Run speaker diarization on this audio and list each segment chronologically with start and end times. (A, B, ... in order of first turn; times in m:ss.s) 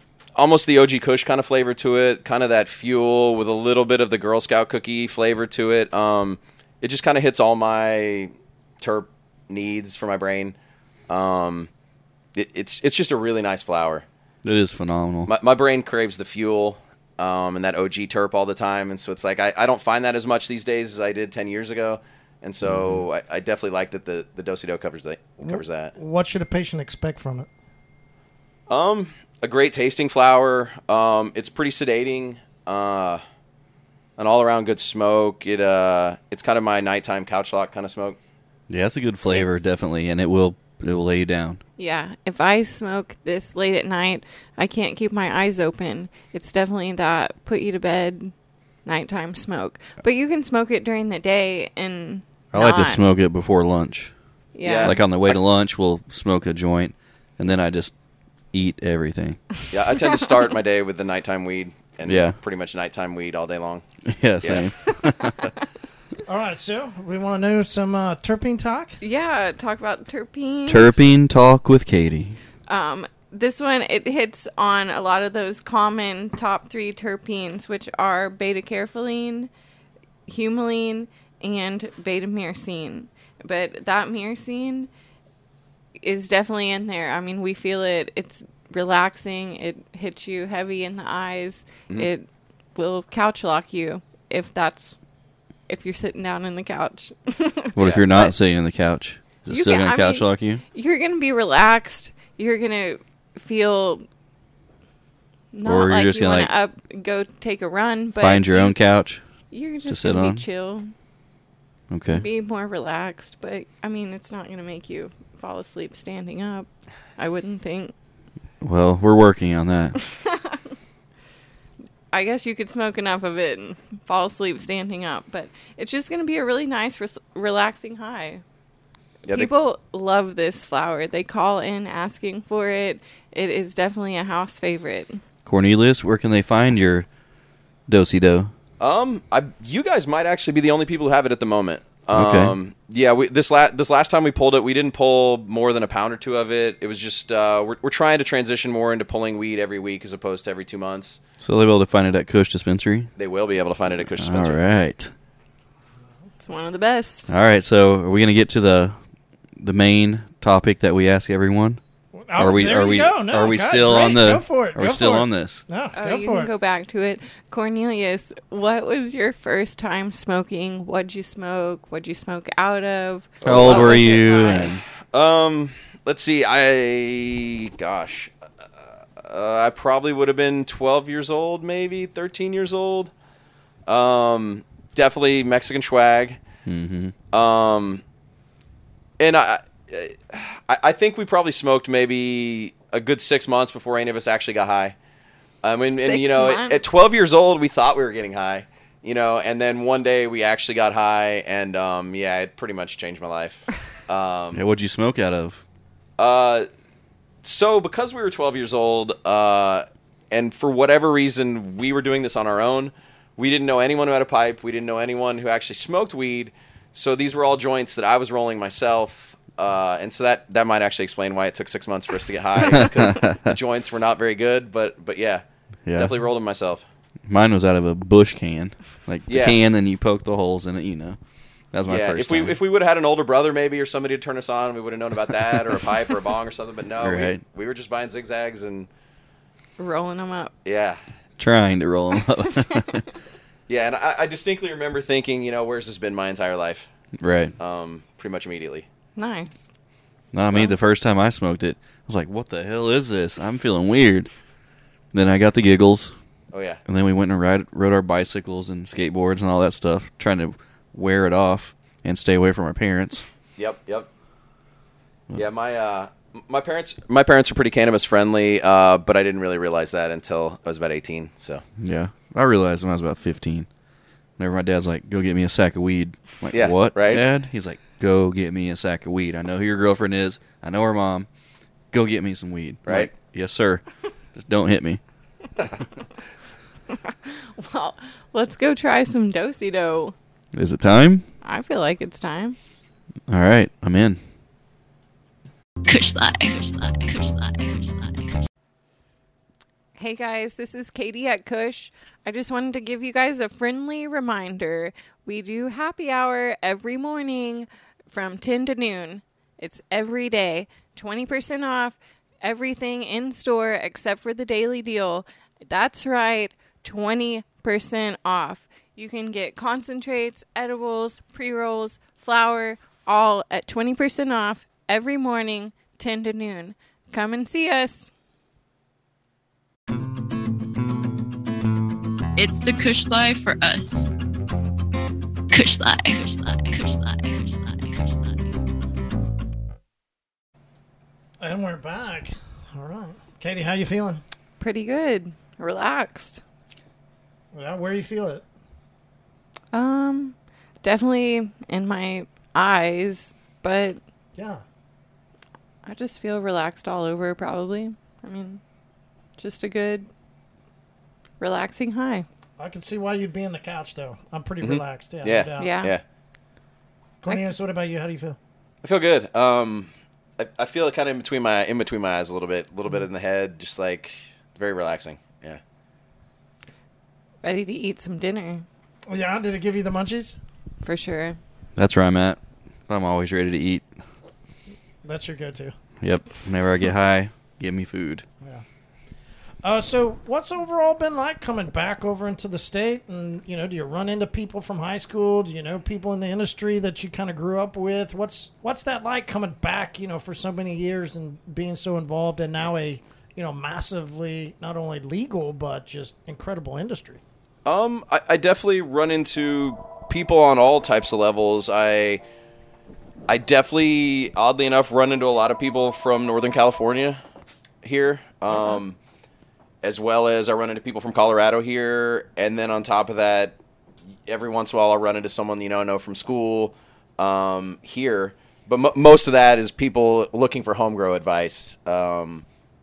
0:00.4-0:10.6 A
0:11.1-0:11.7 A
0:12.4-0:14.0 A
0:14.4-0:15.3 B
0:15.3-0:25.9 A
0:22.6-0:23.0 B
0:25.4-0:27.5 C
0:28.7-0:33.2 A
0:34.2-0:38.2 A
0:38.7-0:41.6 B
0:41.8-0:48.3 D
0:48.9-0:53.0 D
0:52.5-0:54.1 B
0:54.5-0:55.0 D
0:54.6-0:55.4 A
0:54.8-0:57.9 B
0:58.5-0:59.4 B
0:59.7-1:03.8 A
1:02.0-1:02.4 B
1:04.1-1:05.5 B
1:04.4-1:04.7 A
1:06.2-1:09.0 C
1:09.0-1:11.0 D
1:10.7-1:12.4 B
1:12.7-1:19.5 D
1:20.3-1:24.9 D
1:26.0-1:35.0 D
1:35.7-1:38.3 D
1:37.8-1:40.6 B
1:39.5-1:44.1 D
1:45.5-1:48.8 D
1:45.6-1:46.5 B
1:48.2-1:49.2 B
1:49.5-1:50.9 D
1:49.9-1:50.4 B
1:51.9-1:52.2 B
1:52.1-1:57.9 D
1:58.6-2:00.0 B
2:00.1-2:00.6 D
2:02.1-2:08.4 D
2:09.3-2:15.2 D
2:15.5-2:17.1 B
2:17.9-2:18.5 B
2:18.8-2:31.2 A
2:22.1-2:22.6 B
2:31.4-2:33.1 B
2:33.2-2:34.6 A
2:34.0-2:35.1 B
2:36.4-2:37.3 D
2:37.3-2:39.0 B
2:39.6-2:41.8 B
2:42.2-2:46.5 C
2:42.4-2:45.6 B
2:45.9-2:54.7 D
2:53.4-2:58.3 A
2:53.4-2:54.8 B
2:59.2-3:03.1 A
3:03.9-3:06.4 A
3:06.6-3:07.1 B
3:07.3-3:08.0 A
3:09.2-3:15.0 A
3:15.6-3:24.6 A
3:15.9-3:16.8 D
3:24.5-3:25.6 B
3:26.2-3:26.7 A
3:27.4-3:45.4 A
3:42.6-3:43.6 B
3:45.9-3:46.1 B
3:45.9-3:46.8 A
3:47.3-3:51.2 B
3:49.3-3:49.6 A
3:51.7-3:52.6 B
3:51.9-3:58.9 A
3:57.0-3:57.4 B
3:59.8-4:00.5 D
4:00.6-4:01.0 A
4:01.4-4:03.1 B
4:03.7-4:06.9 A
4:07.2-4:07.6 B
4:07.6-4:08.9 A
4:09.2-4:09.7 D
4:10.3-4:14.3 B
4:15.1-4:16.1 B
4:16.5-4:16.8 A
4:16.9-4:23.2 B
4:23.6-4:24.1 A
4:25.3-4:31.6 A
4:31.8-4:33.7 B
4:34.4-4:41.3 B
4:36.5-4:37.2 A
4:41.9-4:45.0 B
4:42.9-4:43.1 A
4:47.1-4:50.2 D
4:50.5-4:51.2 B
4:51.4-4:52.6 D
4:53.3-4:54.2 B
4:55.9-4:58.2 D
4:55.9-4:56.4 E
5:00.0-5:28.1 D
5:32.4-5:34.1 E
5:35.5-5:37.2 E
5:36.8-5:37.2 D
5:41.4-5:44.2 C
5:44.6-5:46.4 D
5:47.5-5:48.4 C
5:49.7-5:54.0 D
5:54.4-5:54.6 C
5:55.8-5:58.6 D
5:59.4-6:00.1 D
6:01.4-6:02.3 D
6:02.6-6:05.7 C
6:04.6-6:06.0 A
6:05.6-6:05.9 D
6:07.2-6:08.4 C
6:08.8-6:15.6 A
6:17.4-6:18.6 D
6:19.1-6:20.4 C
6:20.8-6:21.4 D
6:21.8-6:23.9 B
6:25.0-6:25.7 C
6:26.0-6:28.3 B
6:29.6-6:47.2 C
6:47.6-6:52.2 A
6:53.3-6:57.2 A
6:57.8-6:59.0 A
6:59.8-7:03.6 A
7:04.3-7:12.4 A